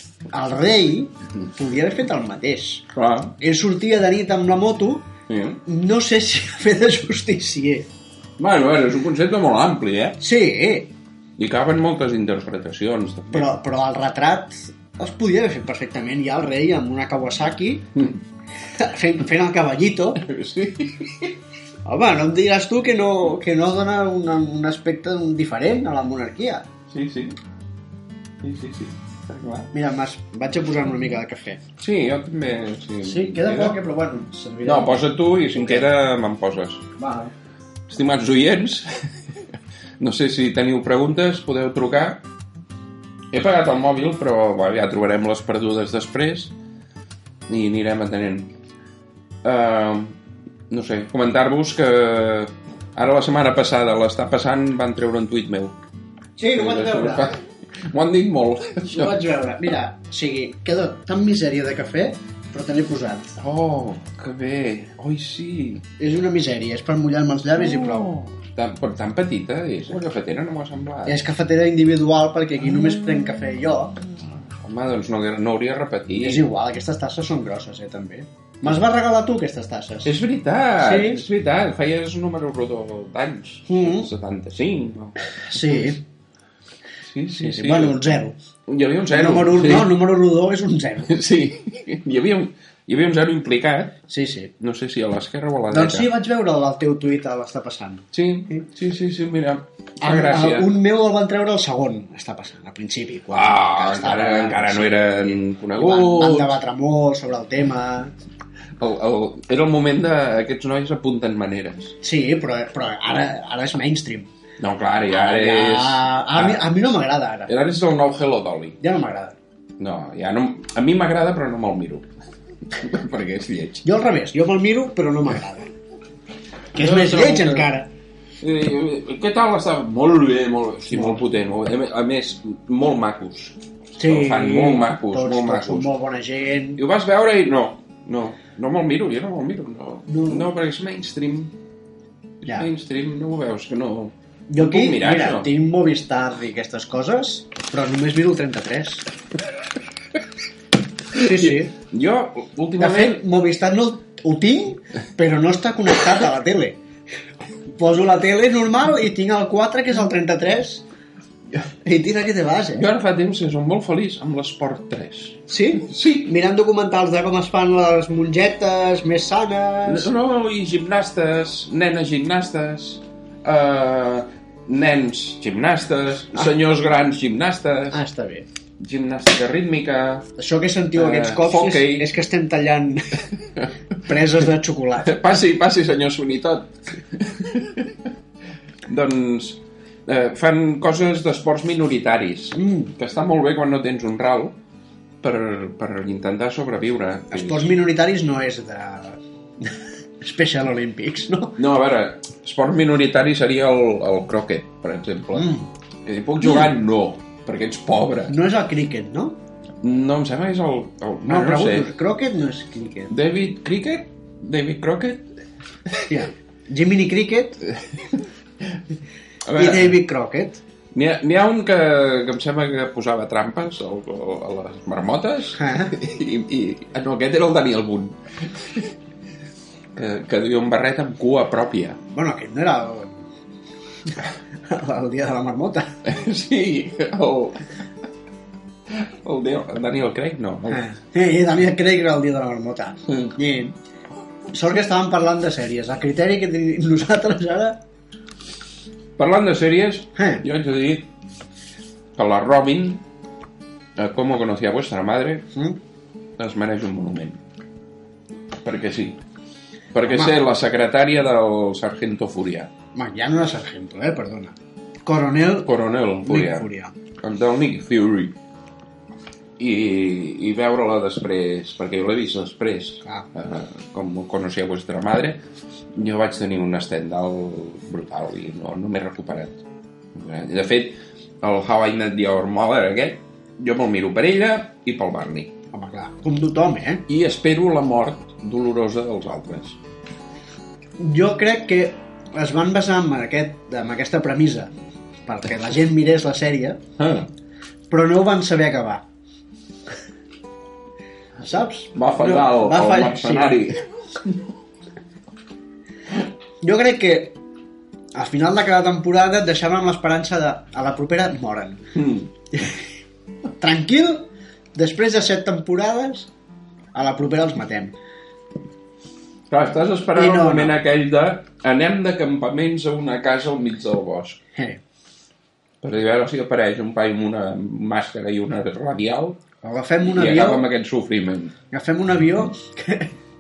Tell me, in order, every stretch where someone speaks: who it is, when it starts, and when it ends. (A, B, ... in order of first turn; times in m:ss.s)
0:00.3-0:02.8 A
0:02.9-0:03.4 B
0:03.4-0:05.0 A
0:05.3-0:05.6 B
0:05.7-0:07.9 A
0:08.4-0:10.2 B
0:10.2-0:10.9 A
0:11.4-0:13.5 B
0:13.3-0:17.8 A
0:18.7-0:20.2 A
0:20.2-0:21.3 B
0:21.8-0:26.7 A
0:26.9-0:27.4 B
0:28.4-0:29.7 B
0:29.7-0:31.6 A
0:31.8-0:33.8 B
0:33.0-0:35.9 A
0:34.6-0:36.9 B
0:37.0-0:37.3 A
0:37.9-0:38.9 B
0:40.0-0:42.2 B
0:43.3-0:46.5 B
0:47.5-0:48.5 B
0:49.4-0:50.2 B
0:50.7-0:55.8 B
0:56.4-0:57.3 A
0:56.5-0:59.1 B
0:58.9-1:03.4 A
1:03.4-1:05.8 B
1:06.0-1:08.1 A
1:07.6-1:11.2 B
1:11.1-1:14.0 A
1:14.4-1:16.4 B
1:16.2-1:20.1 A
1:20.0-1:26.0 B
1:20.8-1:21.2 A
1:23.7-1:24.1 A
1:25.3-1:26.0 A
1:27.0-1:28.0 B
1:27.4-1:28.4 A
1:28.7-1:30.0 B
1:29.1-1:31.2 A
1:31.1-1:34.0 B
1:34.1-1:34.5 A
1:34.6-1:36.1 B
1:35.7-1:38.6 A
1:38.1-1:40.7 B
1:40.0-1:48.1 A
1:43.3-1:46.5 B
1:48.8-1:52.0 B
1:52.0-1:54.3 A
1:54.6-1:56.6 B
1:55.1-1:57.5 A
1:57.5-1:58.8 B
1:58.8-1:59.4 A
1:59.8-2:02.1 B
2:02.7-2:03.9 B
2:03.8-2:05.7 A
2:06.7-2:07.7 B
2:06.8-2:07.9 A
2:08.4-2:15.9 B
2:10.9-2:11.2 A
2:14.0-2:16.8 A
2:16.8-2:21.5 B
2:20.1-2:20.5 A
2:22.4-2:25.5 B
2:24.5-2:29.1 A
2:31.1-2:33.2 B
2:31.1-2:31.7 A
2:32.8-2:36.8 A
2:37.8-2:40.8 A
2:41.7-2:42.9 A
2:42.8-2:46.3 B
2:45.5-2:50.1 A
2:49.8-2:58.0 B
2:57.9-2:58.5 A
2:58.8-3:00.3 B
3:00.4-3:03.2 A
3:01.0-3:02.1 B
3:04.0-3:05.4 A
3:05.0-3:08.0 B
3:08.9-3:14.6 B
3:12.6-3:12.9 A
3:15.2-3:17.7 B
3:17.3-3:21.6 A
3:21.6-3:28.4 B
3:25.4-3:25.7 A
3:26.4-3:26.7 A
3:28.3-3:29.4 A
3:29.8-3:31.9 B
3:31.2-3:33.1 A
3:33.1-3:35.3 B
3:36.1-3:37.6 A
3:39.4-3:40.0 B
3:39.6-3:40.6 A
3:40.9-3:48.9 B
3:45.6-3:45.9 A
3:50.0-3:52.0 B
3:52.1-3:53.2 A
3:54.1-3:56.0 A
3:56.0-3:57.7 B
3:58.9-4:00.8 B
4:00.7-4:03.8 A
4:04.5-4:07.8 A
4:09.2-4:11.1 B
4:10.2-4:10.4 A
4:12.2-4:13.0 B
4:14.0-4:15.5 B
4:15.5-4:15.8 A
4:16.4-4:17.4 B
4:18.6-4:19.2 B
4:19.9-4:22.7 B
4:20.1-4:20.4 A
4:23.0-4:25.7 A
4:25.6-4:26.7 B
4:26.2-4:26.9 A
4:27.2-4:28.4 B
4:29.6-4:35.4 B
4:36.0-4:39.6 B
4:40.2-4:45.5 B
4:45.7-4:47.0 A
4:47.1-4:49.8 B
4:51.0-4:54.7 A
4:55.2-4:56.8 A
4:57.0-4:57.3 B
4:57.9-4:59.0 A
5:01.4-5:03.6 A
5:01.9-5:04.4 B
5:06.6-5:07.4 A
5:08.1-5:11.8 A
5:12.0-5:12.3 B
5:12.5-5:12.8 A
5:13.6-5:16.3 A
5:16.9-5:17.9 A
5:19.5-5:24.4 B
5:20.2-5:20.8 A
5:24.6-5:24.8 A
5:25.8-5:29.4 B
5:29.6-5:30.7 A
5:30.1-5:31.6 B
5:31.7-5:33.2 A